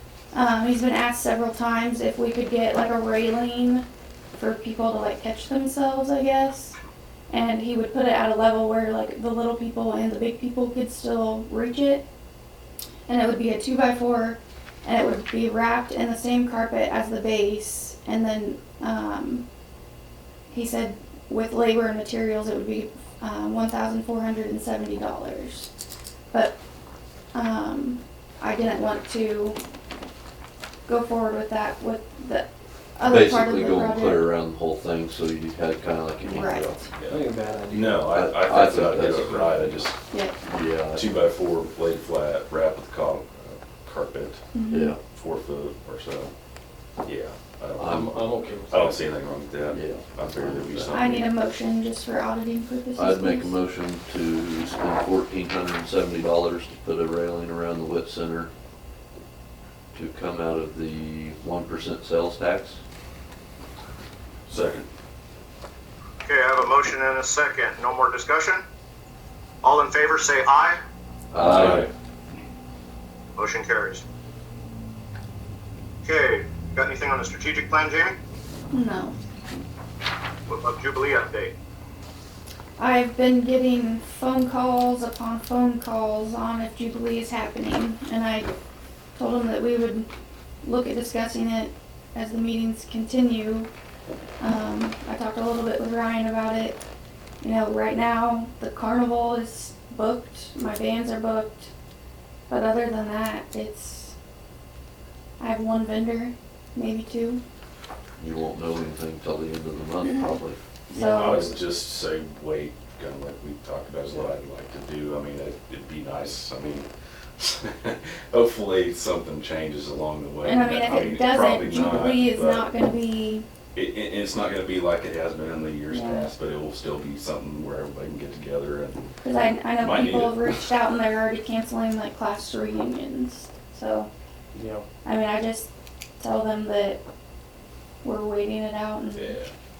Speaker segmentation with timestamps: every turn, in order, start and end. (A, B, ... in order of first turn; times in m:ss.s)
0:00.3-0:06.8 A
0:07.3-0:12.0 A
0:13.1-0:19.4 A
0:20.5-0:25.7 A
0:26.3-0:26.6 A
0:27.3-0:29.6 A
0:30.8-0:34.2 A
0:33.0-0:36.9 B
0:36.3-0:36.9 A
0:37.0-0:40.0 C
0:37.0-0:38.0 D
0:38.0-0:39.8 B
0:40.4-0:41.1 B
0:40.9-0:44.4 C
0:44.5-0:45.0 A
0:44.7-0:45.0 B
0:45.1-0:46.3 C
0:47.0-0:51.3 C
0:47.8-0:48.1 B
0:47.9-0:49.0 D
0:49.7-0:51.0 B
0:50.9-0:53.6 A
0:53.0-0:58.5 B
0:59.9-1:02.8 B
1:04.5-1:04.9 C
1:06.2-1:08.6 E
1:09.6-1:10.8 E
1:11.3-1:11.8 B
1:11.3-1:11.9 C
1:13.4-1:14.0 E
1:16.0-1:18.2 E
1:18.7-1:19.2 A
1:20.5-1:21.5 E
1:22.8-1:28.5 A
1:29.2-1:30.1 A
1:30.6-1:33.7 A
1:34.4-1:36.8 A
1:37.4-1:41.7 A
1:42.5-1:44.1 A
1:45.4-1:47.4 A
1:48.2-1:50.6 B
1:50.0-1:50.3 A
1:50.9-1:51.5 A
1:50.9-2:02.7 C
1:51.0-1:51.4 D
2:00.4-2:03.5 A
2:03.7-2:09.0 C
2:05.9-2:06.3 A
2:09.2-2:14.1 A
2:09.8-2:10.6 C
2:14.5-2:14.8 D
2:15.0-2:17.0 A
2:18.0-2:19.4 A
2:19.1-2:19.5 C